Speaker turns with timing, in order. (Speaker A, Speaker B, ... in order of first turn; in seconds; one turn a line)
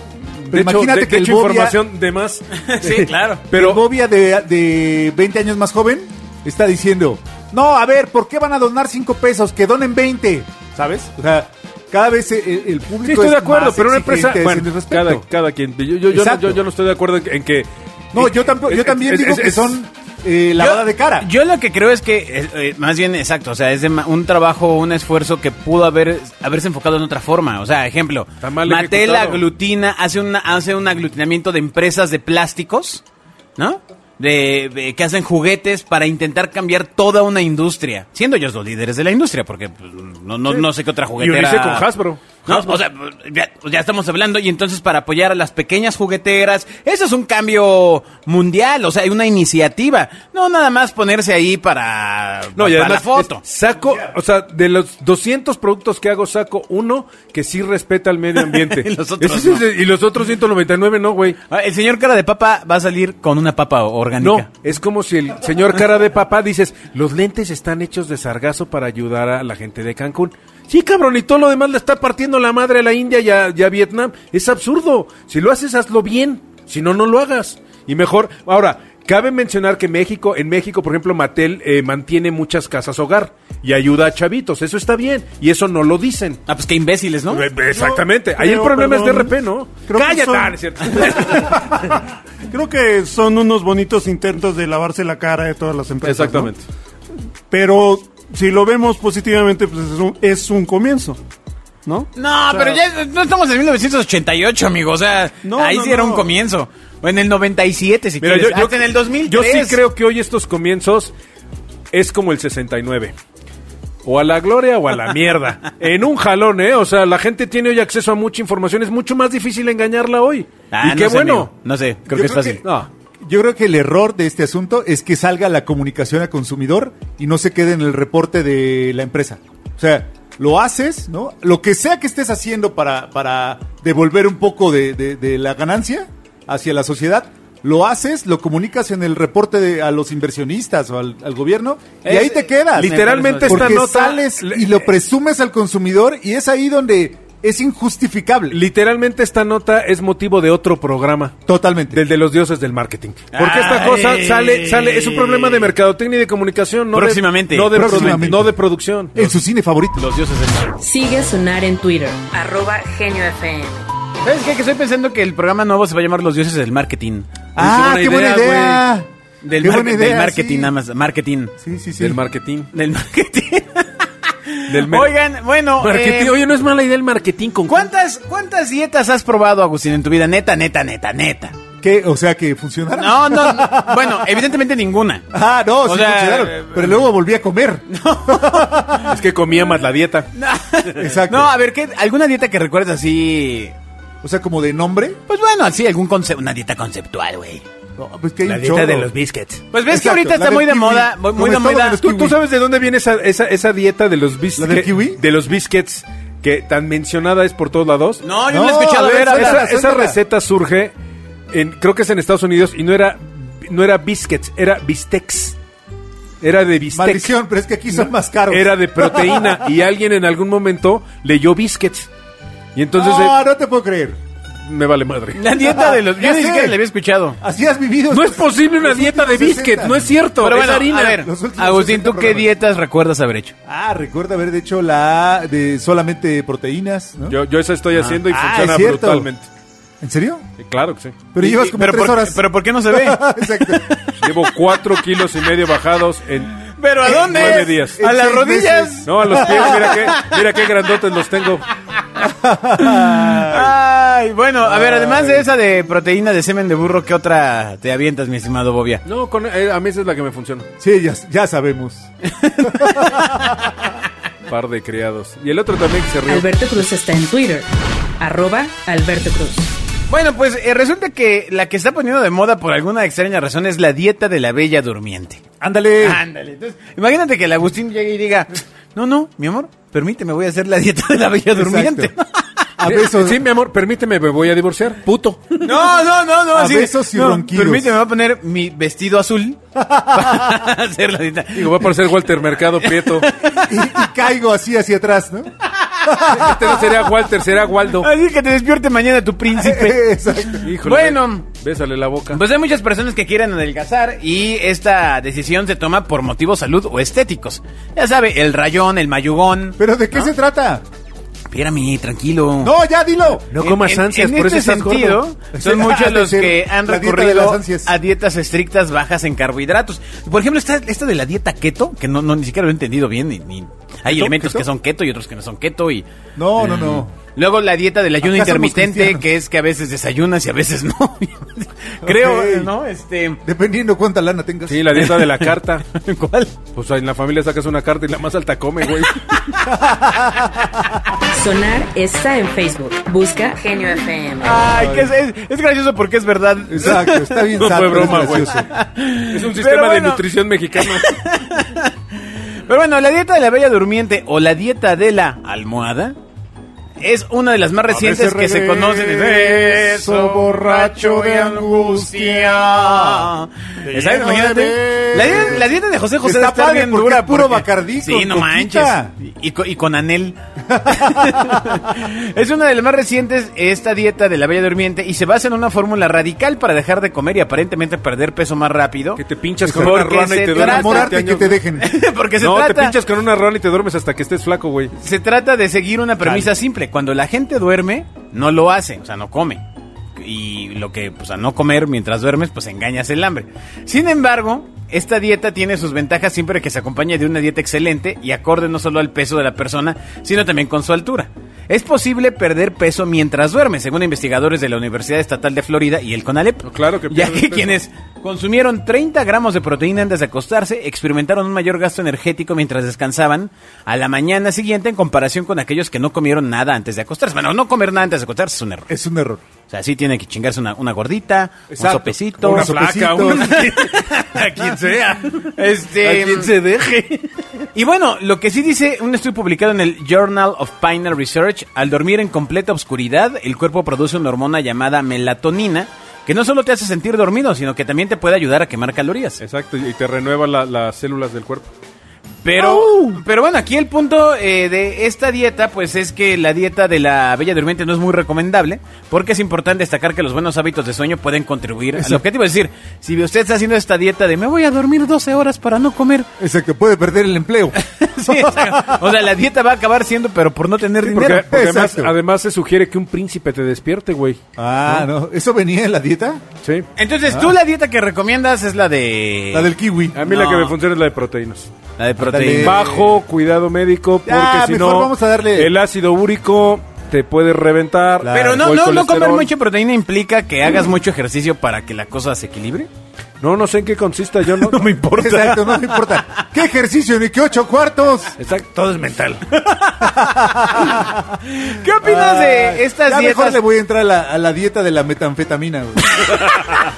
Speaker A: 0.4-3.8
Speaker B: 0.5-1.8
Speaker C: 2.5-3.4
Speaker B: 3.5-15.2
Speaker A: 13.1-19.8
Speaker B: 16.1-16.6
Speaker B: 18.1-21.3
Speaker C: 20.6-33.0
Speaker A: 28.4-29.4
Speaker C: 33.6-41.9
Speaker A: 41.2-42.8
Speaker C: 42.5-53.4
Speaker A: 52.6-61.4
Speaker B: 53.7-54.2
Speaker C: 58.3-59.7
Speaker C: 61.5-64.5
Speaker A: 64.2-86.4
Speaker C: 86.5-87.5
Speaker A: 87.3-91.8
Speaker D: 87.7-89.3
Speaker D: 89.9-96.5
Speaker A: 96.0-96.7
Speaker D: 97.5-101.2
Speaker D: 101.8-102.8
Speaker C: 102.2-109.8
Speaker D: 105.4-106.3
Speaker A: 108.2-111.1
Speaker A: 111.9-113.1
Speaker A: 114.0-121.5
Speaker C: 120.7-122.6
Speaker B: 122.1-122.6
Speaker A: 122.6-122.9
Speaker B: 123.2-148.6
Speaker C: 142.0-143.9
Speaker A: 142.8-144.8
Speaker A: 148.5-151.4
Speaker B: 151.5-152.0
Speaker A: 151.9-159.4
Speaker C: 153.3-155.7
Speaker C: 156.9-158.3
Speaker B: 157.7-158.6
Speaker B: 159.1-160.1
Speaker C: 160.0-160.8
Speaker E: 160.8-163.9
Speaker C: 164.2-167.4
Speaker B: 167.6-169.1
Speaker A: 167.6-168.8
Speaker C: 168.0-168.7
Speaker C: 169.4-171.5
Speaker B: 169.6-170.7
Speaker B: 171.6-172.2
Speaker A: 172.0-172.7
Speaker C: 172.7-176.4
Speaker A: 174.7-175.2
Speaker A: 175.8-177.9
Speaker C: 177.7-181.6
Speaker B: 181.8-184.5
Speaker C: 183.0-185.3
Speaker B: 185.3-189.2
Speaker C: 185.8-187.0
Speaker C: 187.9-189.1
Speaker A: 189.1-190.3
Speaker C: 190.3-193.8
Speaker B: 190.9-191.5
Speaker B: 194.2-195.2
Speaker C: 195.3-197.6
Speaker B: 198.0-199.1
Speaker A: 198.5-199.6
Speaker C: 199.7-202.0
Speaker B: 199.9-202.4
Speaker A: 202.0-208.2
Speaker B: 204.6-205.2
Speaker C: 208.2-209.7
Speaker B: 208.5-210.2
Speaker A: 209.0-210.9
Speaker A: 211.5-215.6
Speaker A: 216.4-217.3
Speaker B: 216.9-219.7
Speaker A: 218.5-222.1
Speaker A: 222.8-223.3
Speaker B: 222.9-224.2
Speaker A: 224.6-225.4
Speaker C: 225.3-227.4
Speaker B: 225.7-226.8
Speaker B: 227.4-230.2
Speaker A: 228.1-231.2
Speaker C: 230.4-233.5
Speaker B: 231.1-232.5
Speaker B: 233.7-237.4
Speaker A: 237.3-239.5
Speaker C: 237.9-238.2
Speaker B: 238.2-239.3
Speaker B: 240.0-240.4
Speaker A: 240.6-241.2
Speaker B: 241.3-244.0
Speaker C: 241.4-244.8
Speaker A: 244.2-248.0
Speaker C: 246.6-250.7
Speaker B: 247.0-250.0
Speaker A: 249.1-251.7
Speaker B: 252.3-253.7
Speaker C: 252.8-259.0
Speaker B: 254.8-255.4
Speaker A: 259.1-260.7
Speaker B: 260.8-262.1
Speaker C: 262.2-263.9
Speaker B: 262.6-263.7
Speaker A: 264.5-266.5
Speaker E: 266.3-267.7
Speaker E: 268.2-269.7
Speaker C: 270.1-275.4
Speaker B: 275.6-276.2
Speaker C: 276.0-282.5
Speaker B: 281.6-282.1
Speaker B: 282.8-283.4
Speaker A: 282.9-285.6
Speaker C: 285.6-289.6
Speaker B: 286.5-288.0
Speaker B: 289.8-290.6
Speaker C: 290.1-292.0
Speaker A: 291.5-293.3
Speaker C: 292.6-293.9
Speaker B: 293.6-295.5
Speaker C: 295.8-296.1
Speaker B: 296.1-296.8
Speaker A: 296.2-298.1
Speaker C: 297.9-301.5
Speaker B: 299.5-300.7
Speaker A: 300.6-302.4
Speaker C: 302.3-310.3
Speaker B: 309.8-310.9
Speaker C: 311.5-312.7
Speaker B: 312.6-313.8
Speaker A: 313.6-315.2
Speaker C: 313.6-326.1
Speaker B: 315.5-317.9
Speaker B: 324.1-324.7
Speaker B: 326.4-327.1
Speaker C: 326.6-333.4
Speaker B: 328.2-329.2
Speaker B: 332.0-332.7
Speaker B: 333.4-335.1
Speaker A: 334.7-335.9
Speaker C: 334.9-336.6
Speaker A: 336.7-339.3
Speaker C: 338.9-339.7
Speaker B: 339.7-340.8
Speaker E: 341.3-344.6
Speaker C: 344.4-356.2
Speaker B: 344.6-345.1
Speaker B: 346.7-348.7
Speaker A: 347.6-348.6
Speaker A: 349.3-351.2
Speaker C: 357.0-381.3
Speaker B: 357.9-363.3
Speaker B: 363.9-369.1
Speaker B: 370.7-371.8
Speaker A: 379.2-381.6
Speaker B: 379.6-381.9
Speaker C: 381.8-383.0
Speaker A: 382.4-384.9
Speaker C: 384.9-389.6
Speaker C: 390.2-418.9
Speaker A: 406.6-407.8
Speaker B: 418.9-419.5
Speaker C: 419.7-426.5
Speaker B: 421.7-423.7
Speaker A: 422.4-427.6
Speaker C: 427.8-439.4
Speaker A: 439.4-441.7
Speaker C: 442.4-456.3
Speaker A: 442.6-443.2
Speaker B: 452.0-452.2
Speaker B: 456.4-459.1
Speaker C: 457.8-461.5
Speaker A: 461.0-465.1
Speaker B: 461.2-462.1
Speaker B: 464.6-466.4
Speaker C: 467.0-469.7
Speaker B: 467.3-467.5
Speaker B: 469.5-470.2
Speaker A: 470.1-471.7
Speaker C: 470.3-470.8
Speaker C: 472.0-473.1
Speaker B: 472.2-473.0
Speaker A: 472.6-479.5
Speaker B: 474.2-475.7
Speaker B: 478.2-478.7
Speaker C: 478.3-482.9
Speaker A: 483.4-485.4
Speaker C: 484.5-486.2
Speaker B: 485.2-488.4
Speaker A: 488.4-489.4
Speaker C: 489.5-493.6
Speaker B: 490.1-491.4
Speaker B: 492.0-496.4
Speaker C: 496.1-496.8